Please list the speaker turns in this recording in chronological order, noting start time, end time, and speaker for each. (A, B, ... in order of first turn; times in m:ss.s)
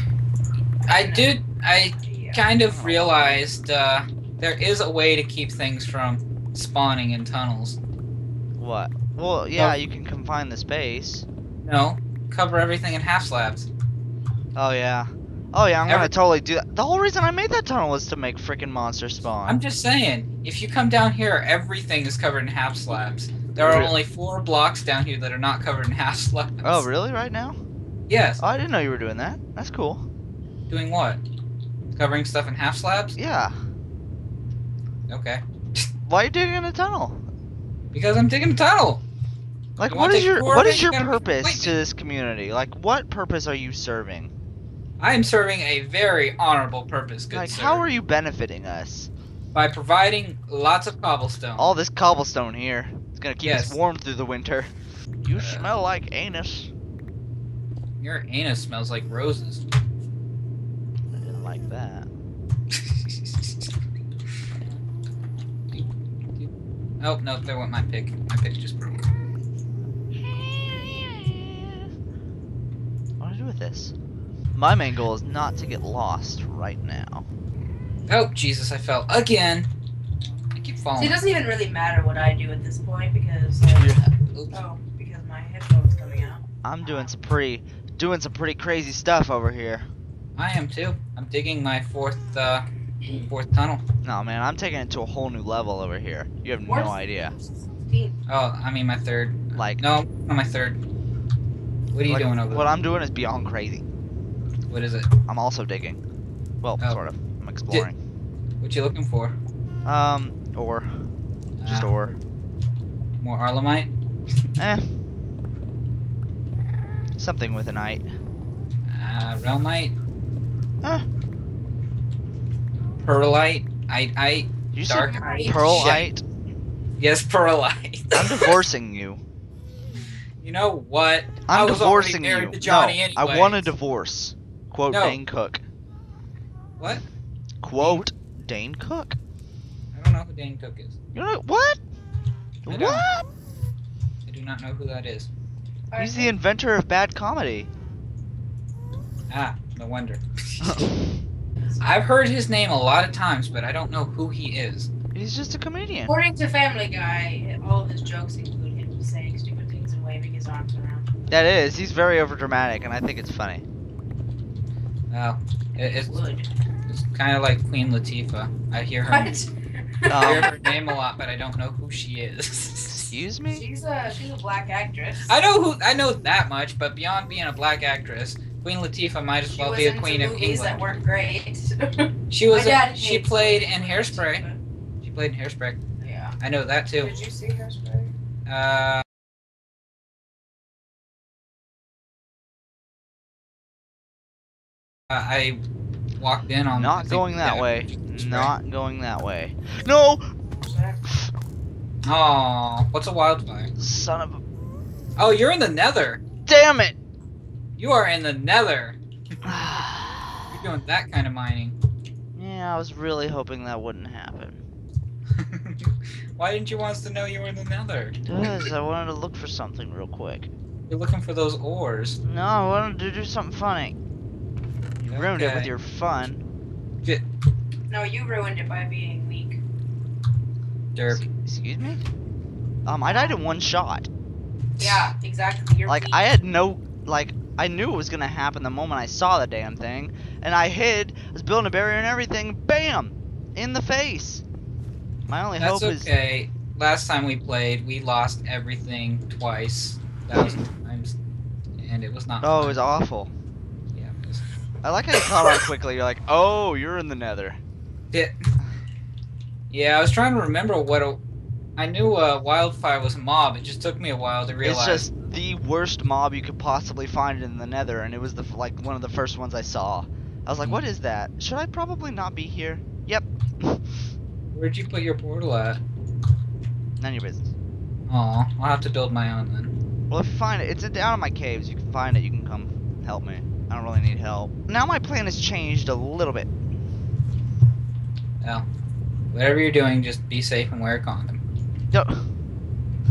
0:00.9-0:01.4 A
0:00.9-0:07.8 B
0:02.0-0:02.5 A
0:02.7-0:03.4 C
0:08.6-0:11.3 C
0:09.5-0:09.8 B
0:11.6-0:13.7 B
0:14.6-0:19.6 C
0:15.9-0:16.2 B
0:19.5-0:26.9 B
0:23.6-0:24.0 C
0:26.6-0:27.6 C
0:28.1-0:28.4 B
0:28.4-0:30.1 C
0:30.7-0:31.2 B
0:31.9-0:33.2 B
0:33.2-0:33.6 C
0:35.1-0:35.9 B
0:36.1-0:37.3 C
0:37.9-0:39.0 B
0:39.8-0:44.3 C
0:39.8-0:41.8 B
0:45.0-0:47.9 B
0:47.3-0:49.1 C
0:49.5-0:51.8 B
0:51.6-0:54.7 C
0:53.4-0:53.8 B
0:55.2-0:56.7 C
0:55.3-0:55.7 B
0:58.0-0:59.6 B
1:01.1-1:02.1 C
1:02.7-1:03.7 B
1:05.7-1:09.1 B
1:10.2-1:11.9 C
1:13.2-1:13.9 C
1:14.6-1:17.3 C
1:18.1-1:19.7 B
1:20.6-1:21.2 B
1:21.0-1:24.0 A
1:23.8-1:24.0 C
1:24.0-1:24.6 B
1:24.5-1:26.4 A
1:26.6-1:29.9 C
1:30.4-1:33.8 B
1:33.0-1:33.3 A
1:34.0-1:37.4 C
1:36.6-1:38.2 A
1:38.3-1:40.8 B
1:39.5-1:39.8 C
1:41.9-1:42.7 B
1:42.0-1:43.8 C
1:44.7-1:45.1 B
1:45.3-1:46.0 C
1:46.6-1:48.0 C
1:48.6-1:49.4 B
1:49.8-1:51.1 C
1:51.6-1:52.2 B
1:51.6-1:52.1 C
1:53.2-1:53.9 B
1:54.6-1:55.0 C
1:57.2-1:58.0 C
1:58.9-1:59.9 B
2:03.0-2:06.1 B
2:04.7-2:06.2 C
2:05.0-2:06.0 A
2:07.0-2:08.6 B
2:08.1-2:09.2 C
2:10.0-2:13.7 B
2:11.5-2:15.6 C
2:14.9-2:15.2 B
2:16.8-2:17.0 B
2:17.6-2:19.2 C
2:17.8-2:18.1 B
2:19.9-2:21.0 B
2:21.2-2:21.8 C
2:22.7-2:23.3 C
2:22.7-2:23.1 B
2:24.3-2:25.3 B
2:25.9-2:26.4 A
2:26.0-2:27.7 C
2:29.3-2:30.9 B
2:30.6-2:31.2 C
2:31.8-2:34.9 B
2:35.1-2:36.1 C
2:36.1-2:41.0 A
2:41.3-2:43.6 C
2:45.1-2:46.2 B
2:46.0-2:46.5 A
2:46.9-2:49.4 B
2:49.1-2:50.9 A
2:50.1-2:50.5 C
2:50.2-2:53.1 B
2:52.9-2:53.6 C
2:53.5-2:55.3 A
2:55.2-3:01.0 B
2:59.5-3:04.6 A
3:02.3-3:04.4 B
3:05.0-3:05.8 B
3:06.0-3:06.4 A
3:06.4-3:07.2 B
3:06.9-3:08.1 A
3:08.5-3:09.0 B
3:15.1-3:15.6 B
3:16.2-3:18.5 B
3:16.7-3:20.2 C
3:20.7-3:21.0 A
3:21.1-3:21.3 C
3:22.0-3:23.7 B
3:23.8-3:24.4 C
3:25.2-3:26.2 B
3:26.5-3:27.0 C
3:27.8-3:29.8 B
3:29.4-3:30.4 C
3:30.5-3:31.8 B
3:32.4-3:34.6 C
3:35.4-3:38.7 B
3:38.3-3:40.5 C
3:40.9-3:42.2 B
3:42.2-3:44.0 C
3:45.0-3:45.7 B
3:45.1-3:46.4 C
3:47.9-3:49.6 A
3:51.0-3:51.3 B
3:51.1-3:52.0 C
3:52.9-3:54.1 C
3:53.0-3:53.4 A
3:54.8-3:56.3 A
3:55.9-4:04.4 C
4:05.3-4:06.1 C
4:05.6-4:11.2 B
4:10.3-4:10.6 C
4:11.8-4:12.8 B
4:12.4-4:13.3 C
4:13.9-4:14.4 B
4:14.8-4:17.6 C
4:18.1-4:18.5 B
4:19.7-4:21.2 B
4:21.8-4:25.1 B
4:24.6-4:33.9 C
4:30.6-4:30.8 B
4:34.5-4:35.8 B
4:37.0-4:37.5 C
4:38.1-4:39.7 B
4:40.1-4:46.5 C
4:48.4-4:48.7 B
4:49.3-4:51.4 B
4:51.9-4:52.3 C